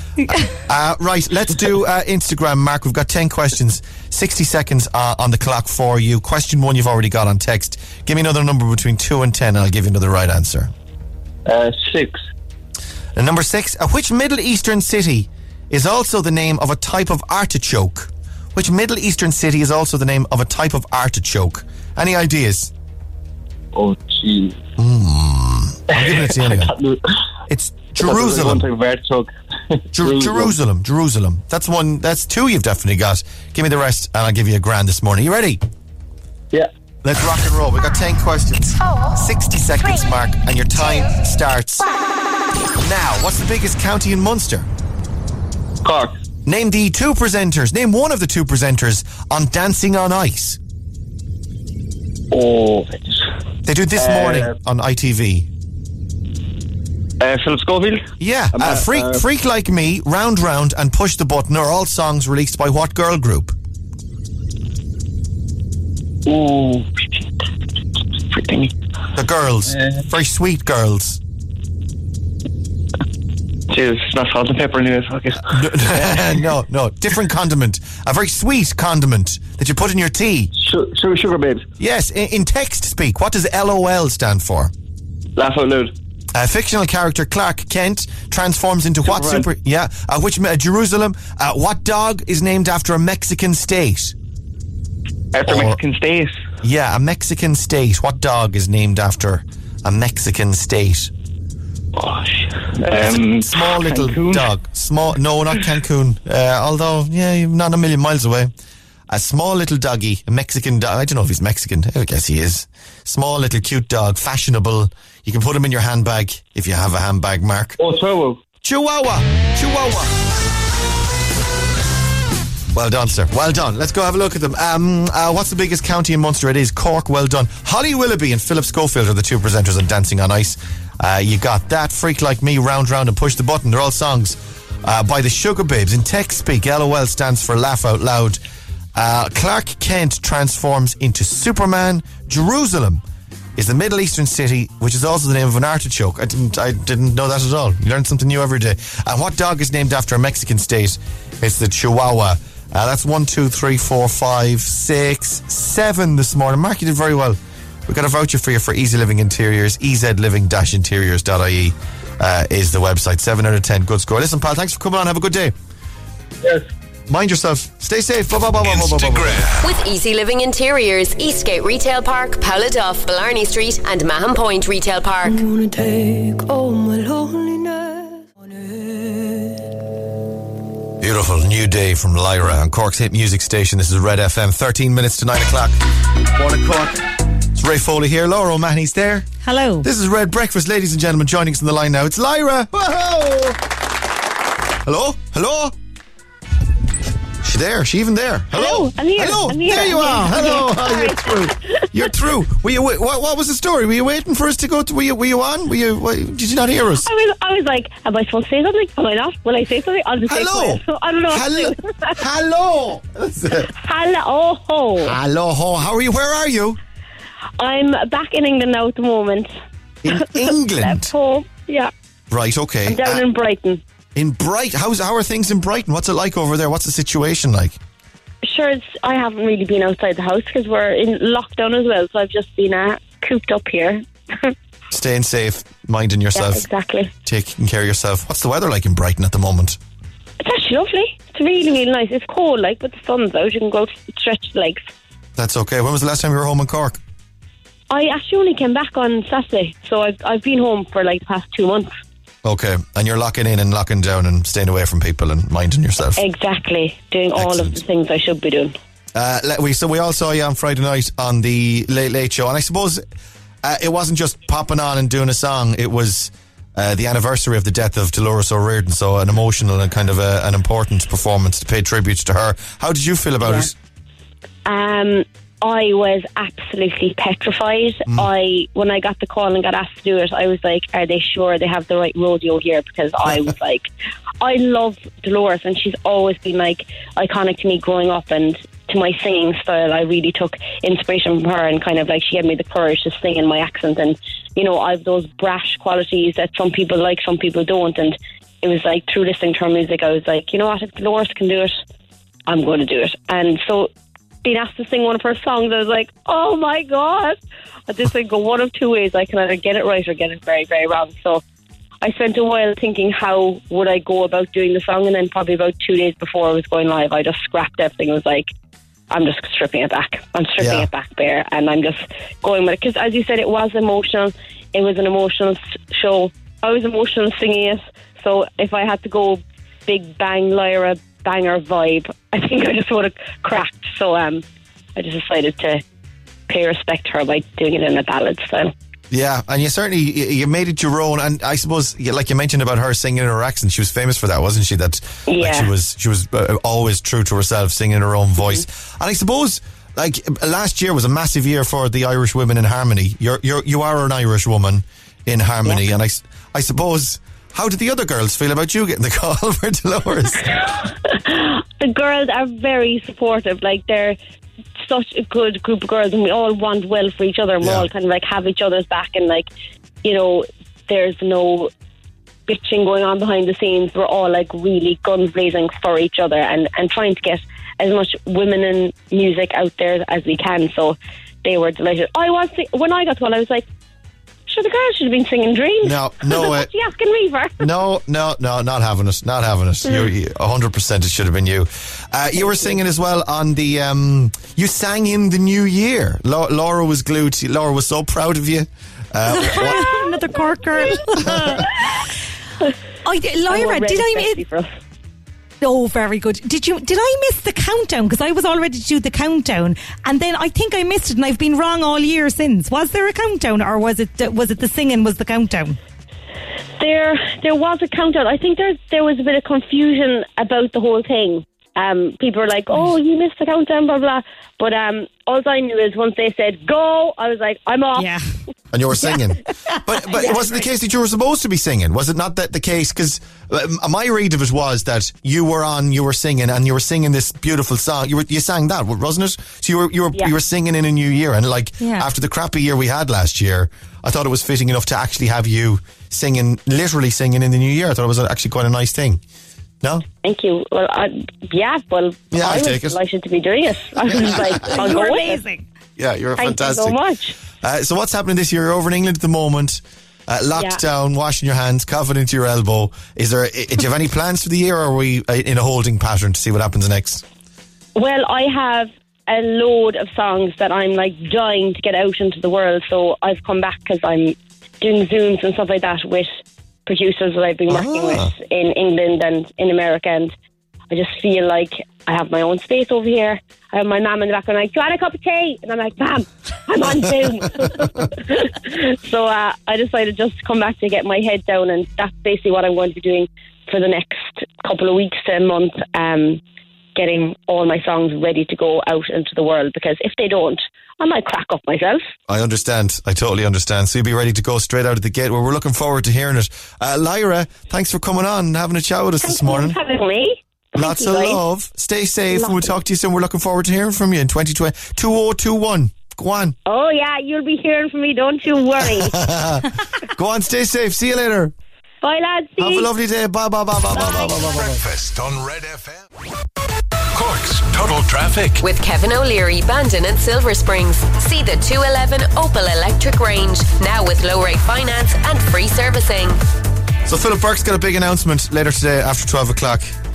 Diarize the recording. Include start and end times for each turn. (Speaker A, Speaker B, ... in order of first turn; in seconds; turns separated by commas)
Speaker A: 0.3-10.7, Speaker B: 11.4-12.2, Speaker A: 13.2-22.7, Speaker B: 23.7-24.6, Speaker A: 24.8-26.7, Speaker B: 25.9-27.0, Speaker A: 27.5-28.6, Speaker B: 27.9-30.6, Speaker A: 29.9-35.6, Speaker A: 37.0-41.9, Speaker A: 42.8-44.7, Speaker B: 45.8-46.1, Speaker A: 46.5-50.6, Speaker B: 52.3-53.3, Speaker A: 53.6-55.5, Speaker B: 53.9-54.5, Speaker B: 57.2-59.2, Speaker A: 58.2-63.5, Speaker B: 66.2-66.9, Speaker B: 68.2-68.7, Speaker A: 69.1-71.2, Speaker B: 73.7-76.4, Speaker A: 75.5-80.5, Speaker B: 80.5-81.6, Speaker A: 81.8-84.7, Speaker B: 85.4-85.9, Speaker A: 86.3-94.1, Speaker B: 89.0-89.5, Speaker B: 95.3-96.3, Speaker A: 95.5-95.8, Speaker A: 96.6-101.1, Speaker B: 101.9-104.5, Speaker A: 103.0-108.5, Speaker A: 109.1-117.8, Speaker B: 117.8-118.4, Speaker A: 118.6-120.2, Speaker A: 122.7-138.4, Speaker A: 138.9-143.0, Speaker A: 143.6-165.5, Speaker A: 167.1-169.5, Speaker C: 168.6-169.7, Speaker D: 169.6-175.4, Speaker E: 175.2-179.5, Speaker A: 181.0-185.8, Speaker A: 186.3-189.3, Speaker F: 189.4-189.9, Speaker A: 189.8-193.6, Speaker A: 194.8-195.7, Speaker A: 197.4-207.1, Speaker G: 198.5-201.5, Speaker G: 207.0-212.2, Speaker A: 210.2-213.7, Speaker G: 213.7-215.1, Speaker A: 215.0-216.8, Speaker G: 217.6-219.5, Speaker A: 220.0-221.1, Speaker G: 220.1-221.9, Speaker A: 222.3-223.2, Speaker G: 222.8-223.8, Speaker A: 224.1-227.8, Speaker G: 228.4-234.5, Speaker A: 234.9-236.7, Speaker G: 236.3-237.1, Speaker A: 237.2-239.8, Speaker G: 240.4-244.8, Speaker A: 245.3-247.0, Speaker G: 247.9-251.9, Speaker A: 252.4-256.2, Speaker G: 256.2-258.7, Speaker A: 257.4-257.8, Speaker A: 259.1-263.0, Speaker A: 263.6-273.7, Speaker G: 273.4-273.7, Speaker G: 274.6-283.9, Speaker G: 284.4-301.7, Speaker G: 302.5-303.9, Speaker G: 304.4-307.4, Speaker G: 307.9-311.4, Speaker G: 312.0-318.5, Speaker G: 319.1-334.4, Speaker A: 320.6-320.9, Speaker G: 334.9-335.8, Speaker G: 336.5-338.7, Speaker A: 339.1-360.5, Speaker G: 345.3-345.7, Speaker G: 360.6-364.2, Speaker G: 364.8-369.5, Speaker A: 367.6-367.9, Speaker G: 370.0-371.7, Speaker G: 372.5-383.7, Speaker G: 384.5-387.7, Speaker A: 385.8-386.7, Speaker A: 387.6-399.9, Speaker G: 392.4-392.7, Speaker F: 399.2-402.1, Speaker F: 403.0-404.4, Speaker G: 403.5-404.7, Speaker F: 405.6-415.8, Speaker G: 416.8-428.1, Speaker F: 428.0-428.2, Speaker A: 428.7-449.2, Speaker G: 430.1-430.6, Speaker F: 441.8-442.1, Speaker G: 450.2-455.4, Speaker A: 452.3-453.0, Speaker A: 454.1-454.9, Speaker F: 454.5-455.6, Speaker A: 456.0-457.0, Speaker G: 456.4-457.4, Speaker A: 457.6-467.2, Speaker G: 460.6-460.8, Speaker G: 467.9-476.3, Speaker G: 476.9-480.3, Speaker A: 477.7-478.3, Speaker G: 480.9-496.4, Speaker G: 496.9-502.1, Speaker A: 502.3-509.8, Speaker G: 509.2-511.4, Speaker A: 510.8-516.5, Speaker G: 512.3-512.7, Speaker G: 516.6-519.2, Speaker A: 518.8-521.5, Speaker G: 522.0-522.9, Speaker A: 522.6-524.8, Speaker C: 524.5-526.1, Speaker C: 527.1-528.6, Speaker D: 528.6-536.4, Speaker A: 537.0-539.9